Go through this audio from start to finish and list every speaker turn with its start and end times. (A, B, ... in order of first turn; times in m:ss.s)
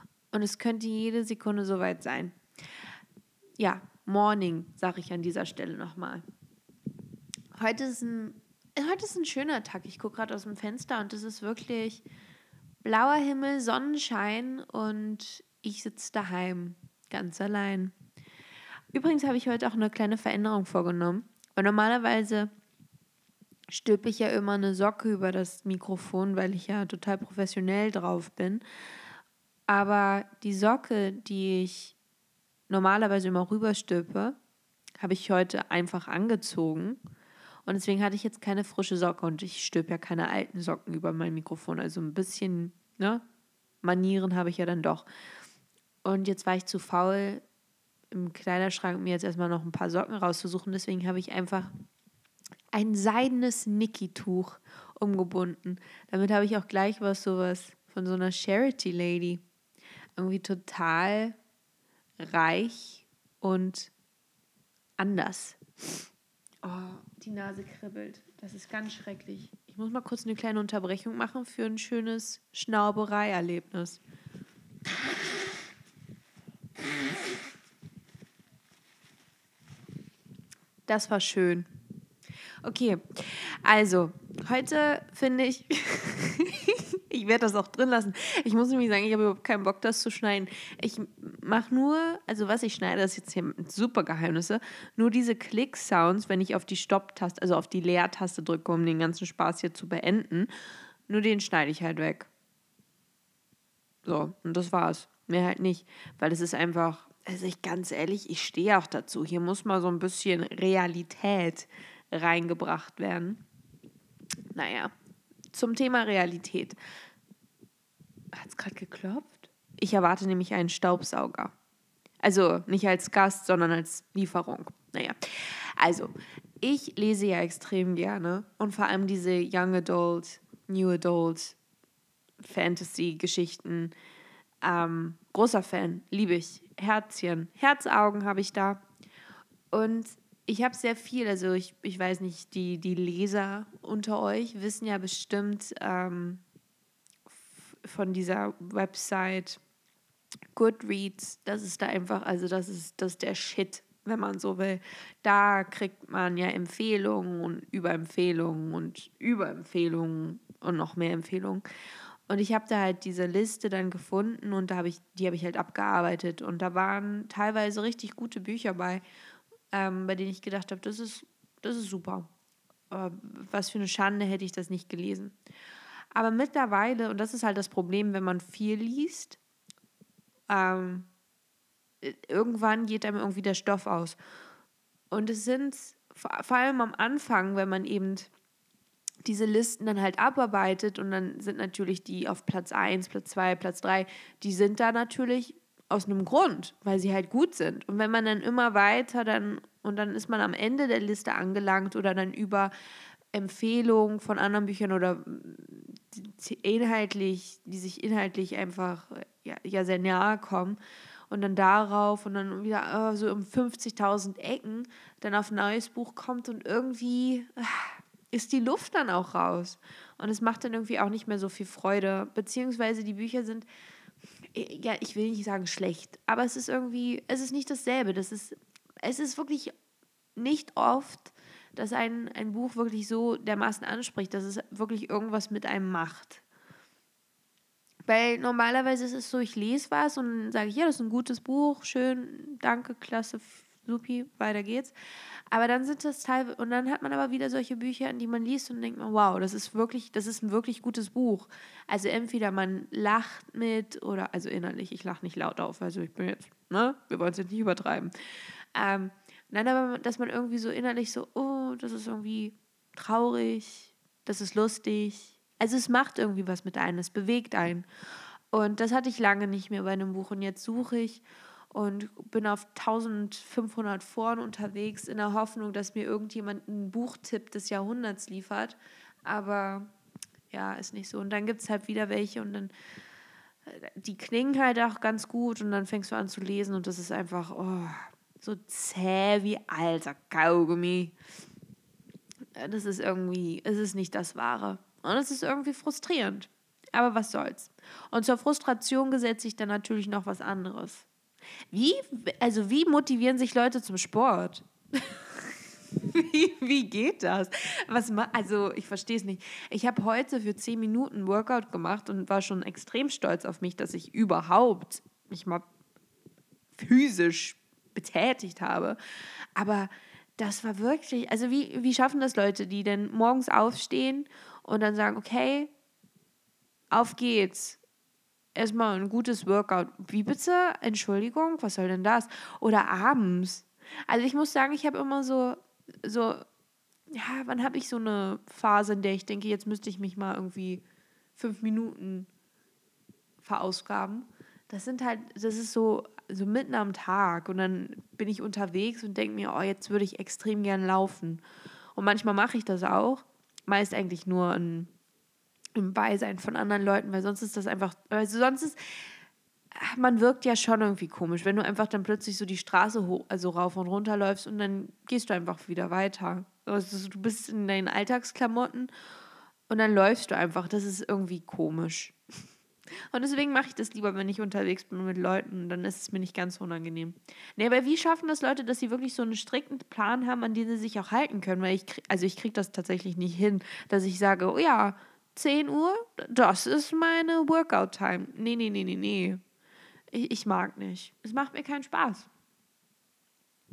0:00.3-0:02.4 A
0:03.6-0:06.2 A
0:07.6-0:12.1 A
0:12.8-0:17.9 A
0:18.9-0:22.5 A
0:23.7-0:28.6 A
0:29.7-0:32.0 A
0:32.7-0:34.4 A
0:35.0-0:37.0 A
0:37.6-0:43.2 A
0:43.8-0:45.1 A
0:46.0-0:47.4 A
0:48.1-0:51.7 A
0:52.7-0:59.4 A
1:00.2-1:01.4 A
1:02.2-1:03.9 A
1:05.0-1:06.0 A
1:06.6-1:14.0 A
1:20.9-1:21.7 A
1:22.6-1:40.5 A
1:41.1-1:42.3 A
1:44.0-1:53.4 A
1:54.5-1:54.9 A
1:55.5-1:56.8 A
1:58.3-2:01.5 A
2:02.2-2:11.6 A
2:12.4-2:13.9 A
2:14.6-2:18.8 A
2:19.7-2:26.4 A
2:27.3-2:29.6 A
2:30.5-2:41.6 A
2:42.3-2:49.0 A
2:49.7-2:52.3 A
2:52.9-2:55.4 A
2:56.1-2:59.4 A
3:00.5-3:01.1 A
3:02.0-3:04.2 A
3:05.1-3:08.3 A
3:09.2-3:22.7 A
3:23.3-3:30.8 A
3:31.3-3:43.7 A
3:44.5-3:49.7 A
3:50.4-3:56.4 A
3:58.1-4:05.0 A
4:05.5-4:18.1 A
4:18.8-4:27.9 A
4:28.5-4:39.9 A
4:40.5-4:42.7 A
4:43.7-4:51.2 A
4:52.6-5:01.1 A
5:01.7-5:15.7 A
5:16.7-5:19.0 A
5:19.6-5:25.7 A
5:26.9-5:27.8 A
5:28.6-5:36.4 A
5:37.1-5:40.8 A
5:41.4-5:42.3 A
5:43.4-5:51.4 A
5:52.0-5:54.9 A
5:55.8-5:58.8 A
5:59.7-6:08.9 A
6:09.7-6:12.2 A
6:13.1-6:29.4 A
6:30.1-6:32.3 A